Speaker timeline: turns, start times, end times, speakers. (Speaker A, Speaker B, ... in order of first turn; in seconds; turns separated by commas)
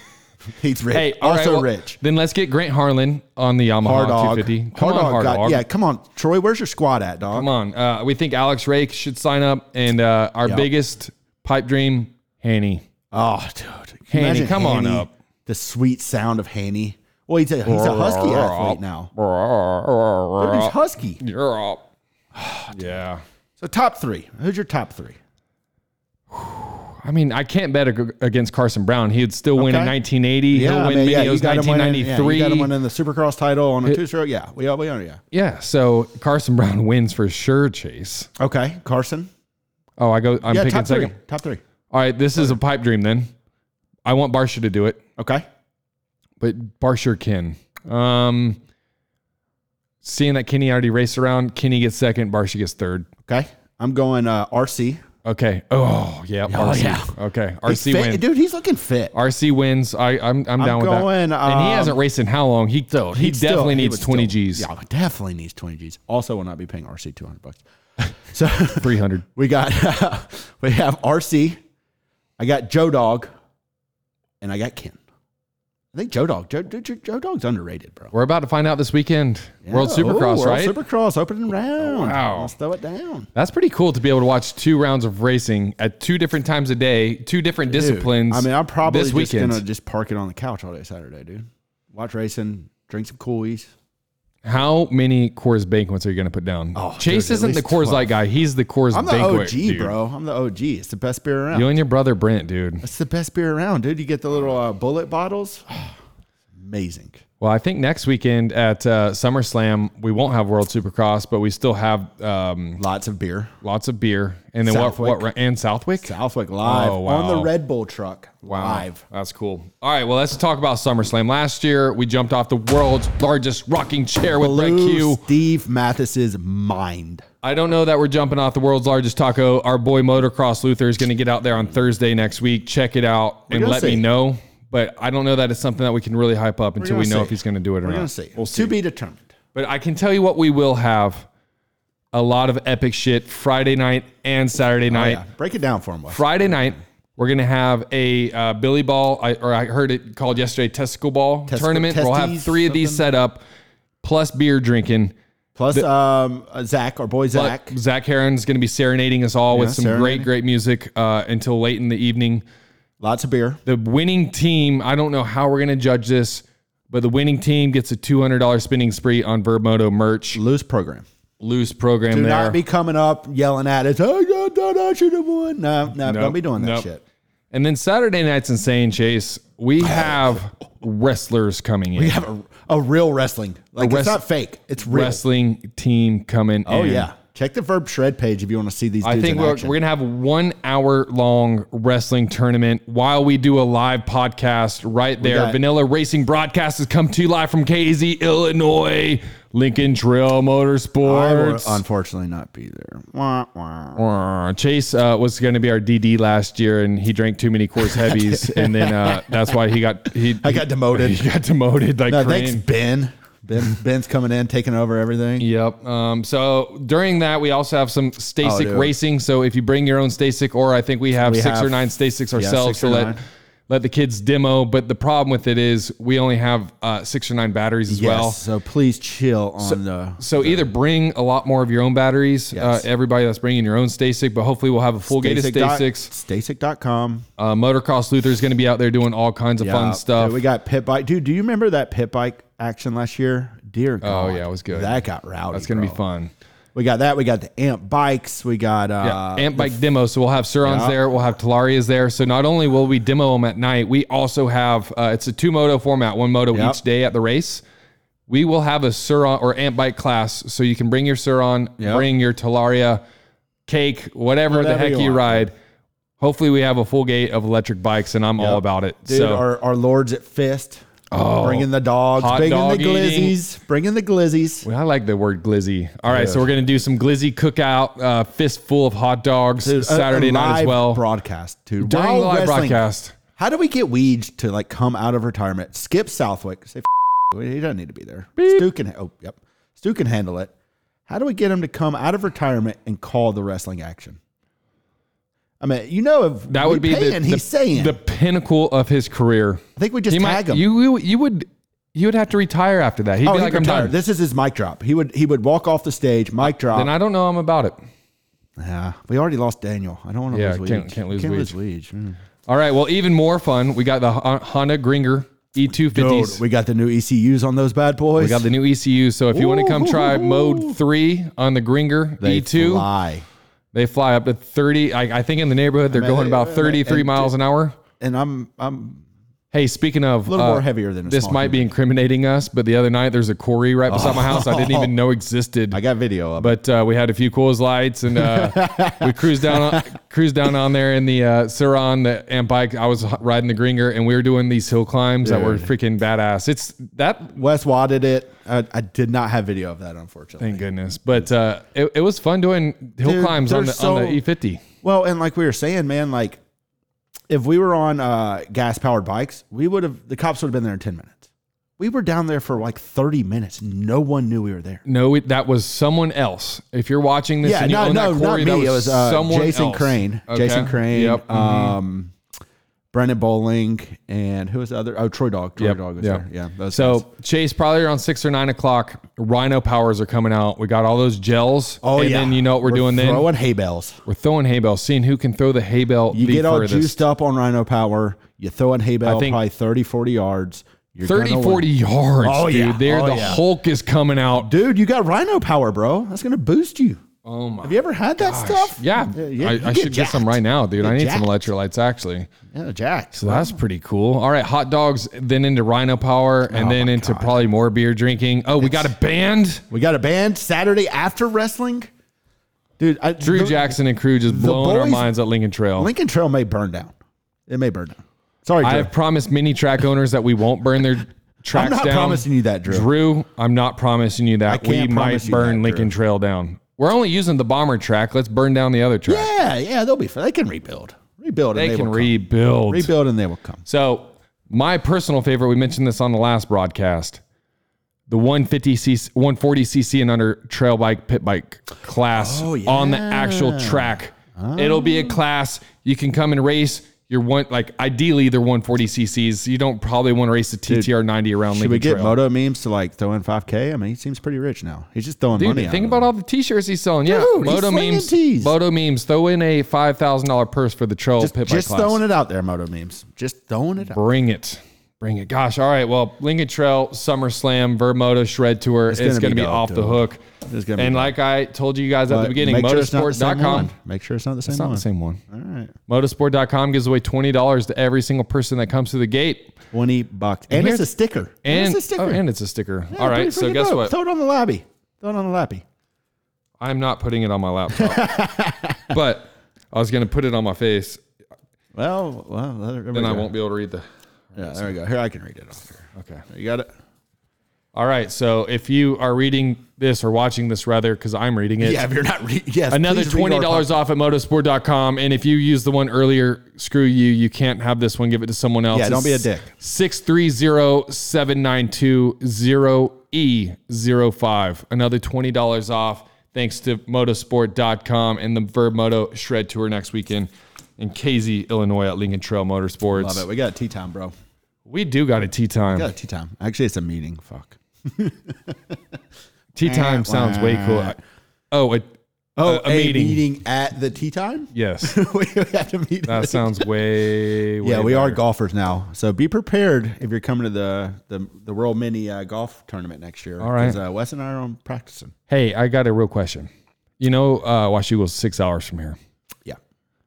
Speaker A: 0.5-2.0, Speaker B: 0.9-5.6, Speaker A: 3.8-7.5, Speaker B: 7.3-12.8, Speaker A: 13.1-19.1, Speaker B: 14.1-15.1, Speaker B: 17.6-21.9, Speaker A: 20.4-21.2, Speaker A: 22.3-23.0, Speaker B: 22.7-23.2, Speaker A: 23.6-25.2, Speaker B: 26.3-32.7, Speaker A: 29.6-29.9, Speaker A: 30.5-35.2, Speaker B: 35.3-38.3, Speaker A: 38.4-39.3, Speaker B: 40.0-41.1, Speaker A: 40.5-41.6, Speaker B: 41.9-43.3, Speaker B: 44.0-45.0, Speaker A: 45.2-45.5, Speaker B: 46.4-48.6, Speaker B: 50.0-53.1, Speaker A: 53.2-55.0, Speaker B: 55.2-58.2, Speaker A: 56.5-57.1, Speaker A: 57.7-59.1, Speaker B: 59.1-64.7, Speaker A: 60.6-62.0, Speaker A: 63.1-71.6, Speaker B: 68.8-69.2, Speaker A: 72.4-73.3, Speaker A: 74.4-75.0, Speaker A: 75.9-78.1, Speaker B: 78.1-80.8, Speaker A: 79.7-83.3, Speaker B: 81.8-82.5, Speaker B: 83.3-89.6, Speaker A: 87.7-93.7, Speaker B: 94.4-99.9, Speaker A: 96.7-98.1, Speaker A: 98.9-101.7, Speaker B: 101.5-102.8, Speaker A: 102.8-105.9, Speaker A: 106.5-107.2, Speaker B: 107.4-112.8, Speaker A: 112.8-113.5, Speaker B: 113.6-117.5, Speaker A: 114.6-115.3, Speaker A: 116.0-119.0, Speaker B: 118.5-125.2, Speaker A: 124.3-127.2, Speaker B: 127.4-138.7, Speaker A: 133.5-134.0, Speaker A: 136.8-139.3, Speaker B: 139.5-141.3, Speaker B: 142.1-145.2, Speaker A: 144.9-146.7, Speaker B: 146.1-153.4, Speaker A: 151.5-153.0, Speaker B: 154.0-155.1, Speaker A: 155.6-157.7, Speaker B: 157.3-162.4, Speaker A: 159.5-160.3, Speaker A: 163.0-163.6, Speaker B: 163.7-170.4, Speaker A: 170.3-171.1, Speaker B: 171.4-172.6, Speaker A: 172.1-177.0, Speaker B: 176.0-176.9, Speaker B: 177.5-182.2, Speaker A: 179.8-180.4, Speaker A: 181.9-185.2, Speaker B: 183.8-184.2, Speaker B: 184.8-187.1, Speaker A: 186.7-189.8, Speaker B: 189.0-201.8, Speaker A: 195.2-195.6, Speaker A: 201.0-204.0, Speaker B: 203.9-212.6, Speaker A: 207.8-209.6, Speaker A: 210.4-211.3, Speaker A: 212.1-215.4, Speaker B: 215.4-223.2, Speaker A: 218.4-218.9, Speaker A: 221.2-223.2, Speaker B: 223.7-228.4, Speaker A: 227.9-230.7, Speaker B: 229.6-236.1, Speaker A: 232.5-232.8, Speaker A: 235.1-237.3, Speaker B: 237.4-240.4, Speaker A: 239.6-246.0, Speaker B: 244.0-246.3, Speaker A: 246.7-249.8, Speaker B: 249.0-257.6, Speaker A: 250.6-251.0, Speaker A: 256.5-256.8, Speaker B: 258.3-263.0, Speaker A: 261.8-262.1, Speaker B: 263.7-265.5, Speaker A: 264.5-265.5, Speaker B: 266.2-269.4, Speaker A: 268.4-270.8, Speaker B: 271.1-273.4, Speaker A: 271.4-274.6, Speaker B: 274.6-281.0, Speaker A: 276.1-276.5, Speaker A: 279.6-282.8, Speaker B: 281.8-283.1, Speaker A: 283.4-290.5, Speaker B: 288.4-288.6, Speaker A: 291.1-294.2, Speaker A: 295.6-298.0, Speaker B: 296.5-303.9, Speaker A: 299.8-300.6, Speaker A: 303.2-306.9, Speaker B: 306.4-307.8, Speaker A: 308.6-312.2, Speaker B: 310.3-311.5, Speaker B: 312.5-316.4, Speaker A: 315.9-318.5, Speaker B: 318.2-322.9, Speaker A: 319.3-320.8, Speaker A: 322.2-323.2, Speaker B: 323.7-327.8, Speaker A: 325.9-327.3, Speaker A: 328.0-329.0, Speaker B: 329.5-335.8, Speaker A: 330.3-331.7, Speaker A: 333.9-334.9, Speaker A: 335.7-336.6, Speaker B: 336.4-347.3, Speaker A: 338.1-339.9, Speaker A: 345.2-345.7, Speaker A: 347.3-350.6, Speaker B: 350.4-354.6, Speaker A: 353.0-354.2, Speaker A: 354.8-356.4, Speaker A: 357.3-364.8, Speaker B: 364.9-371.8, Speaker A: 367.4-372.1, Speaker A: 372.9-377.1, Speaker B: 375.6-383.3, Speaker A: 381.8-384.0, Speaker B: 384.1-387.0, Speaker A: 386.1-391.7, Speaker B: 389.0-389.4, Speaker B: 391.0-394.5, Speaker A: 392.2-393.4, Speaker A: 394.4-397.0, Speaker B: 397.2-402.3, Speaker A: 397.6-401.3, Speaker A: 402.5-403.6, Speaker B: 403.1-409.6, Speaker A: 406.5-407.4, Speaker A: 408.6-408.9, Speaker A: 409.7-411.9, Speaker A: 412.8-415.1, Speaker B: 413.2-415.9, Speaker A: 415.8-416.9, Speaker A: 417.5-418.9, Speaker B: 418.6-429.3, Speaker A: 421.5-422.9, Speaker A: 424.5-425.9, Speaker A: 429.1-432.1, Speaker B: 431.5-432.9, Speaker A: 432.7-433.6, Speaker B: 433.6-437.2, Speaker B: 438.1-452.2, Speaker A: 442.1-445.2, Speaker A: 451.5-456.1, Speaker B: 455.3-462.0, Speaker A: 457.1-458.5, Speaker A: 461.2-464.0, Speaker B: 463.8-470.2, Speaker A: 468.9-471.1, Speaker B: 470.8-473.7, Speaker A: 472.1-475.7, Speaker B: 474.5-475.2, Speaker B: 475.9-479.6, Speaker A: 479.7-482.2, Speaker B: 480.5-480.9, Speaker B: 481.4-483.9, Speaker A: 482.9-485.6, Speaker B: 486.6-488.2, Speaker A: 487.7-488.9, Speaker B: 488.9-491.0, Speaker A: 491.7-493.3, Speaker B: 492.9-494.7, Speaker A: 494.3-496.7, Speaker B: 495.9-496.2, Speaker B: 497.7-501.8, Speaker A: 501.6-503.7, Speaker B: 502.7-523.2, Speaker A: 508.7-509.5, Speaker A: 522.9-524.1, Speaker B: 524.6-525.9, Speaker A: 525.7-528.8, Speaker B: 529.5-531.0, Speaker A: 529.6-531.0, Speaker B: 531.5-531.9, Speaker A: 532.4-536.7, Speaker B: 532.4-533.2, Speaker B: 534.5-534.9, Speaker B: 536.0-538.2, Speaker A: 537.6-545.1, Speaker B: 543.4-543.8, Speaker B: 545.3-546.5, Speaker B: 547.0-549.0